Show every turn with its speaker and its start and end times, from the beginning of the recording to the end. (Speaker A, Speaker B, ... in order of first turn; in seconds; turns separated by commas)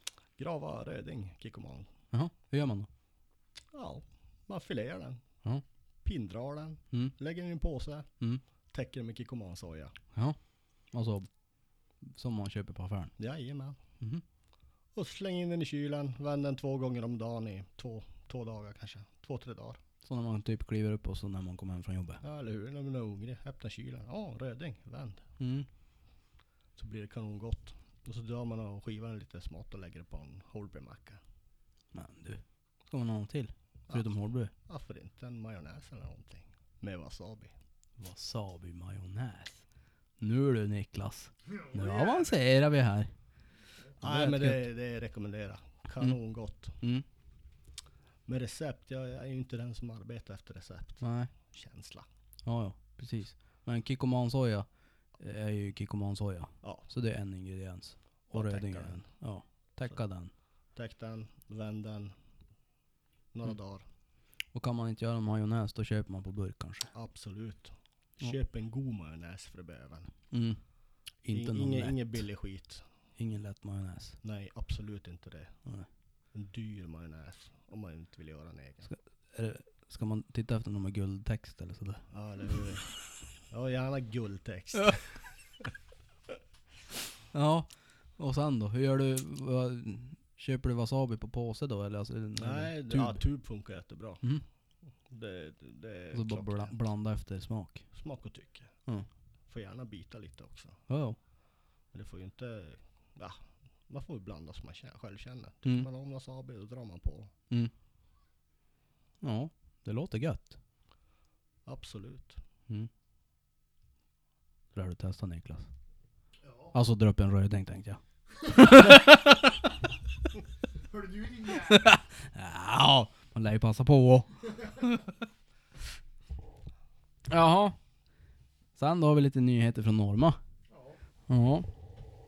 Speaker A: 0.4-1.9, Speaker B: 2.1-2.9, Speaker A: 3.7-5.2, Speaker A: 6.0-8.1, Speaker A: 8.7-9.9, Speaker B: 10.9-11.3, Speaker B: 12.0-13.1, Speaker A: 13.2-13.8, Speaker A: 14.9-19.8, Speaker B: 20.0-22.2, Speaker A: 22.2-25.3, Speaker B: 25.4-25.7, Speaker A: 26.8-31.2, Speaker B: 31.9-34.5, Speaker A: 34.7-37.5, Speaker B: 38.0-39.6, Speaker B: 40.2-43.1, Speaker C: 41.7-42.3, Speaker B: 44.0-44.6, Speaker A: 44.0-46.8, Speaker A: 48.2-52.1, Speaker B: 51.0-51.3, Speaker B: 52.5-54.7, Speaker B: 55.2-60.3, Speaker A: 58.3-59.0, Speaker A: 60.7-62.1, Speaker A: 63.3-63.8, Speaker B: 64.5-66.9, Speaker A: 66.9-70.1, Speaker B: 70.3-70.6, Speaker B: 71.2-72.2, Speaker A: 71.3-72.8, Speaker B: 73.2-74.2, Speaker A: 74.2-75.5, Speaker A: 76.3-78.9, Speaker B: 78.9-82.0, Speaker A: 82.1-83.0, Speaker A: 83.5-85.2, Speaker B: 87.3-93.2, Speaker A: 92.4-94.2, Speaker A: 95.1-96.7, Speaker B: 96.1-97.8, Speaker A: 97.9-98.7, Speaker A: 99.5-100.8, Speaker B: 100.9-101.2, Speaker A: 101.9-107.3, Speaker B: 109.2-110.5, Speaker A: 111.7-112.4, Speaker B: 114.7-115.7, Speaker C: 116.5-116.7, Speaker B: 116.7-119.7, Speaker C: 120.9-121.9, Speaker B: 121.5-125.1, Speaker B: 127.3-127.8, Speaker B: 128.8-130.4, Speaker C: 130.7-131.0, Speaker B: 131.3-131.7